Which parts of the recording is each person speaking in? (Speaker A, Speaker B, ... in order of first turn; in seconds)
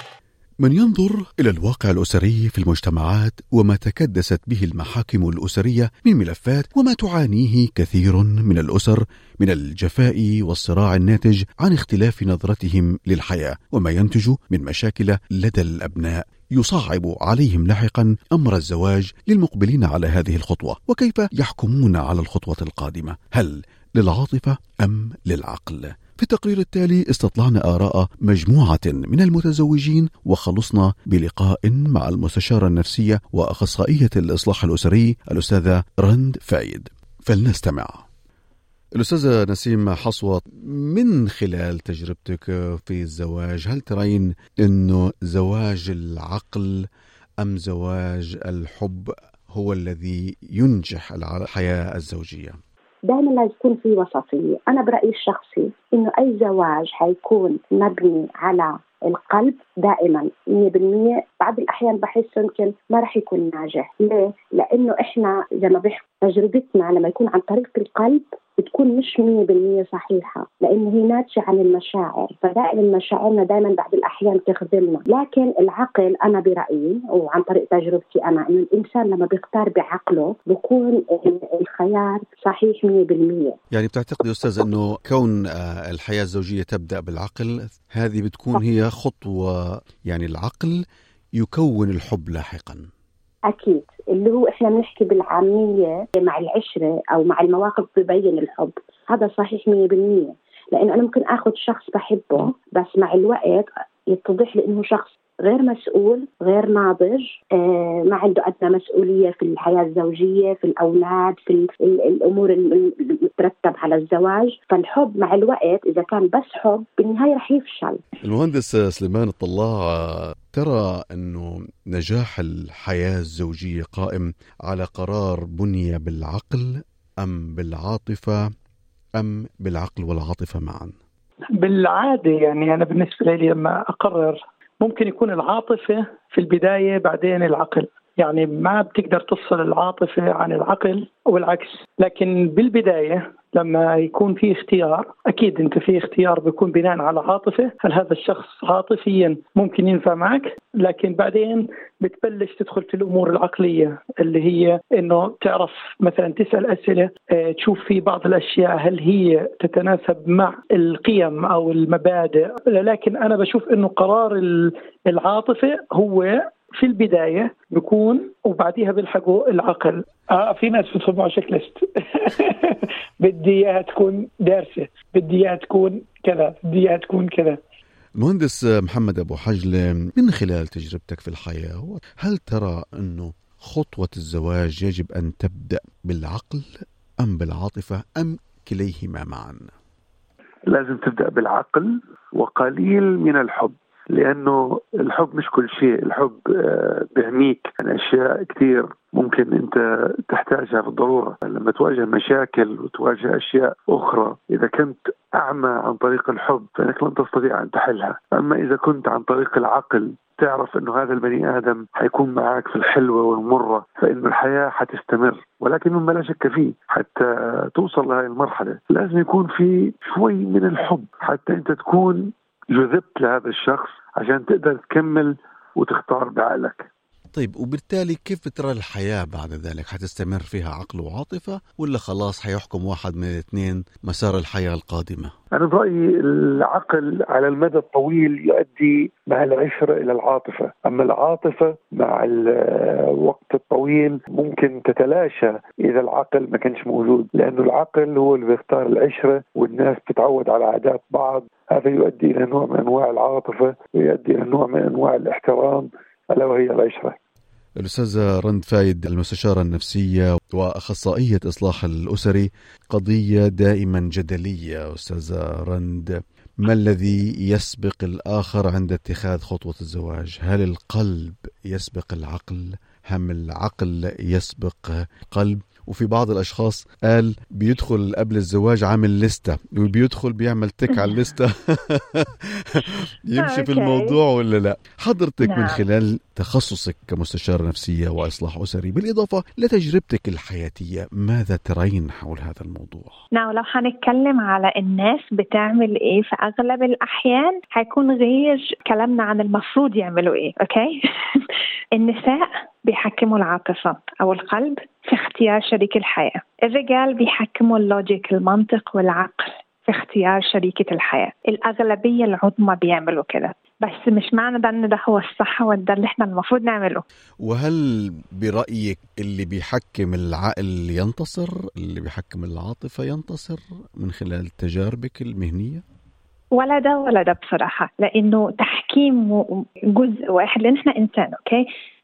Speaker A: 0.6-38.0, 39.0-46.8, 47.4-52.6, 83.7-89.5, 90.1-90.8, 91.4-92.8, 118.2-126.7, 127.2-128.3, 129.2-130.9, 178.2-186.7, 187.2-189.7, 227.3-235.3, 257.8-282.6, 283.2-293.2, 317.4-317.8, 318.4-325.8
Speaker B: 53.0-83.5, 93.5-118.0
Speaker C: 131.5-177.6
Speaker D: 190.7-226.9, 235.5-257.2
Speaker E: 283.4-284.2, 285.4-285.8, 293.3-317.0, 326.5-331.6